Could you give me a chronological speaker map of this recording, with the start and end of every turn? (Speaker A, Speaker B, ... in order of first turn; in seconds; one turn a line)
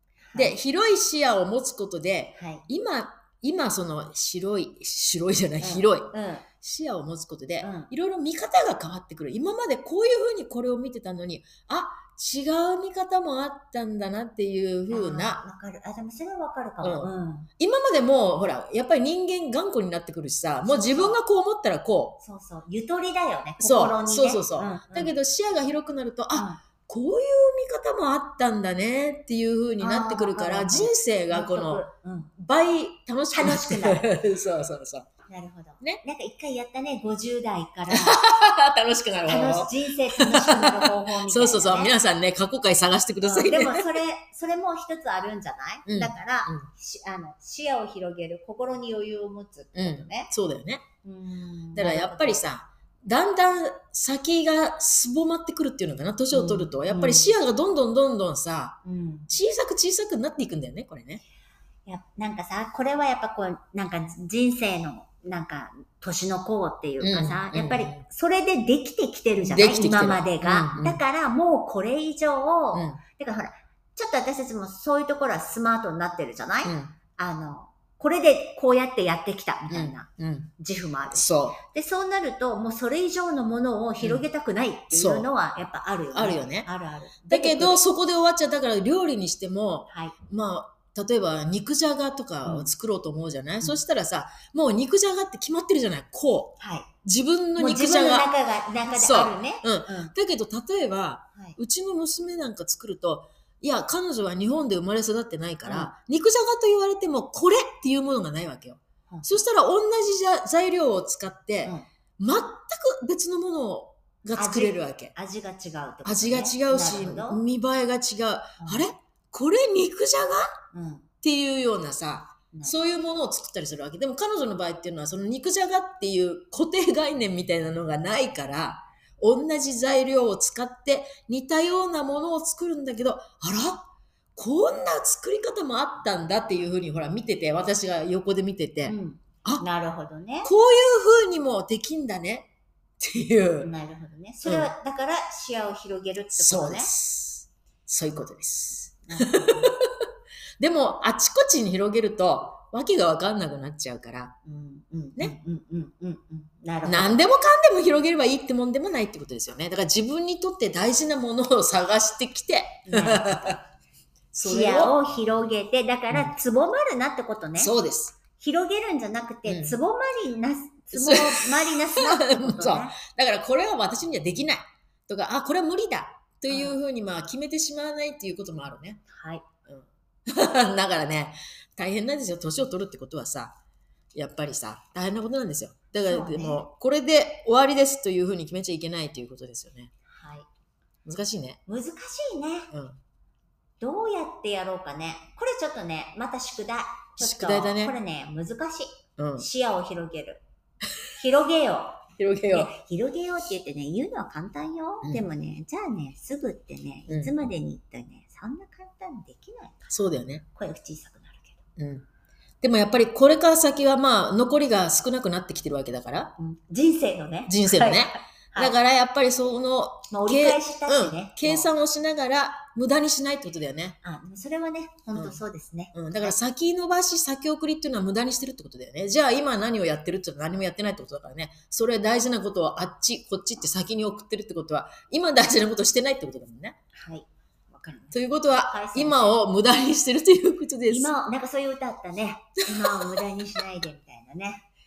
Speaker A: 0.3-15.4
Speaker B: 2.4-2.6
Speaker B: 5.6-6.5
Speaker B: 7.6-7.9
Speaker B: 14.9-17.5
Speaker A: 16.8-22.2
Speaker B: 20.6-21.2
Speaker B: 22.2-25.1
Speaker A: 23.6-31.8
Speaker B: 26.3-26.6
Speaker B: 29.8-32.3
Speaker A: 32.4-35.1
Speaker B: 33.3-34.1
Speaker B: 35.3-38.2
Speaker A: 37.9-44.0
Speaker B: 39.3-41.9
Speaker B: 43.2-50.3
Speaker A: 45.9-46.7
Speaker A: 49.7-50.9
Speaker B: 51.0-52.4
Speaker A: 51.7-61.2
Speaker B: 56.3-57.3
Speaker B: 58.8-59.3
Speaker B: 61.9-80.1
Speaker A: 67.0-68.0
Speaker A: 69.4-71.0
Speaker A: 72.7-73.0
Speaker A: 76.6-76.9
Speaker A: 79.7-80.5
Speaker B: 80.6-87.8
Speaker A: 81.1-81.6
Speaker A: 84.9-85.3
Speaker A: 86.1-86.7
Speaker A: 87.3-98.3
Speaker B: 89.9-90.2
Speaker B: 92.4-92.7
Speaker B: 96.6-96.9
Speaker B: 97.6-100.1
Speaker A: 98.9-115.1
Speaker B: 105.6-105.9
Speaker B: 114.3-117.4
Speaker A: 116.0-120.6
Speaker B: 118.6-118.9
Speaker B: 120.7-121.1
Speaker A: 121.2-139.6
Speaker B: 122.5-122.8
Speaker B: 138.9-140.5
Speaker A: 140.4-142.5
Speaker A: 143.0-143.7
Speaker B: 143.6-146.9
Speaker A: 144.4-144.7
Speaker A: 146.4-150.0
Speaker B: 149.1-149.8
Speaker A: 150.6-154.3
Speaker B: 154.4-157.2
Speaker A: 156.8-163.6
Speaker B: 162.8-163.6
Speaker A: 164.3-164.9
Speaker B: 164.4-167.7
Speaker A: 167.6-168.2
Speaker B: 168.3-173.0
Speaker A: 169.5-169.8
Speaker A: 170.9-179.0
Speaker B: 176.5-176.8
Speaker B: 179.1-179.4
Speaker A: 179.7-183.6
Speaker A: 184.1-189.9
Speaker B: 186.0-186.6
Speaker B: 190.1-190.5
Speaker A: 191.0-191.6
Speaker B: 191.7-192.7
Speaker A: 192.7-193.0
Speaker B: 193.8-200.4
Speaker A: 197.2-197.9
Speaker A: 199.2-199.4
Speaker B: 201.2-209.9
Speaker A: 202.2-202.7
Speaker A: 207.1-207.3
Speaker A: 209.9-210.4
Speaker B: 210.5-211.6
Speaker A: 211.8-212.1
Speaker A: 212.6-216.3
Speaker B: 216.4-218.7
Speaker A: 217.4-224.0
Speaker B: 220.1-221.7
Speaker B: 224.0-226.3
Speaker A: 225.9-236.8
Speaker B: 236.9-239.4
Speaker A: 238.1-241.1
Speaker B: 240.9-244.7
Speaker A: 242.7-243.2